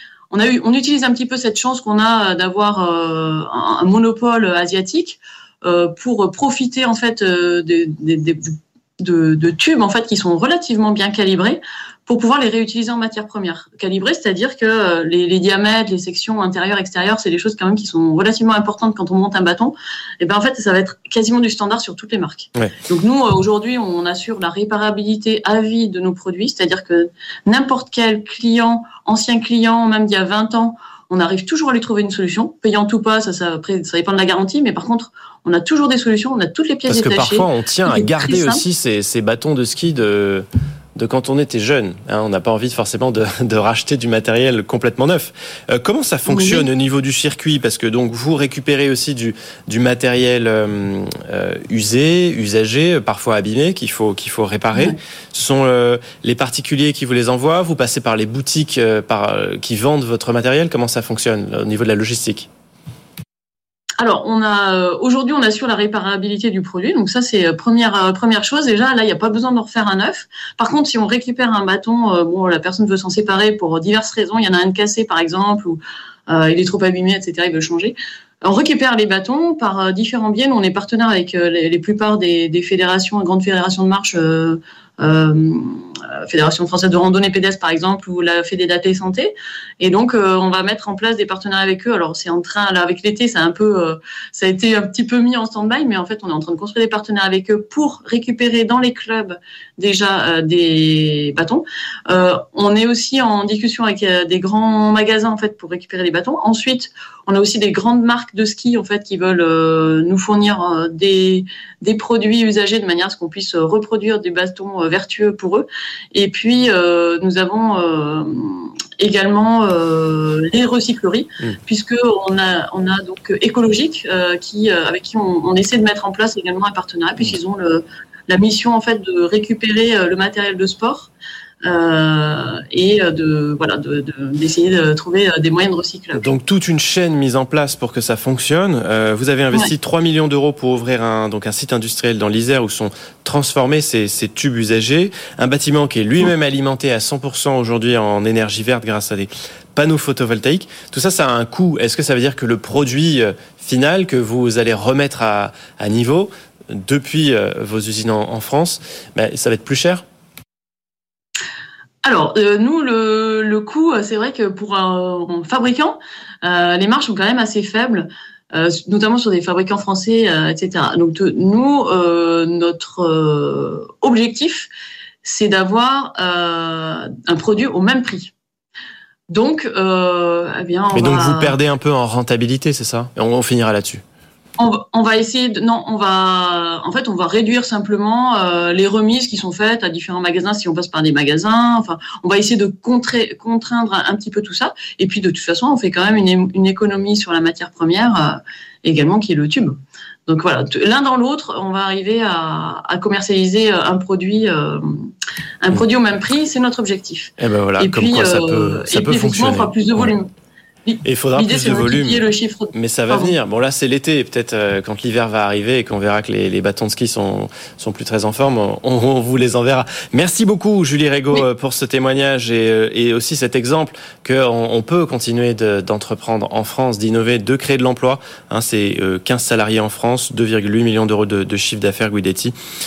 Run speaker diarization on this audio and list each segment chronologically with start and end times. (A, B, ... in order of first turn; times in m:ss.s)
0:00.3-0:38.6 A
0:36.9-1:02.5 B
0:46.3-0:46.7 A
1:04.0-2:11.1 A
2:11.6-2:16.3 A
2:16.1-2:40.0 B
2:42.0-2:54.7 A
2:55.2-2:58.3 A
2:59.3-3:01.6 A
3:00.9-3:04.0 B
3:04.6-3:25.1 A
3:25.6-3:30.3 A
3:27.4-3:30.1 B
3:30.8-3:33.4 A
3:31.0-3:52.5 B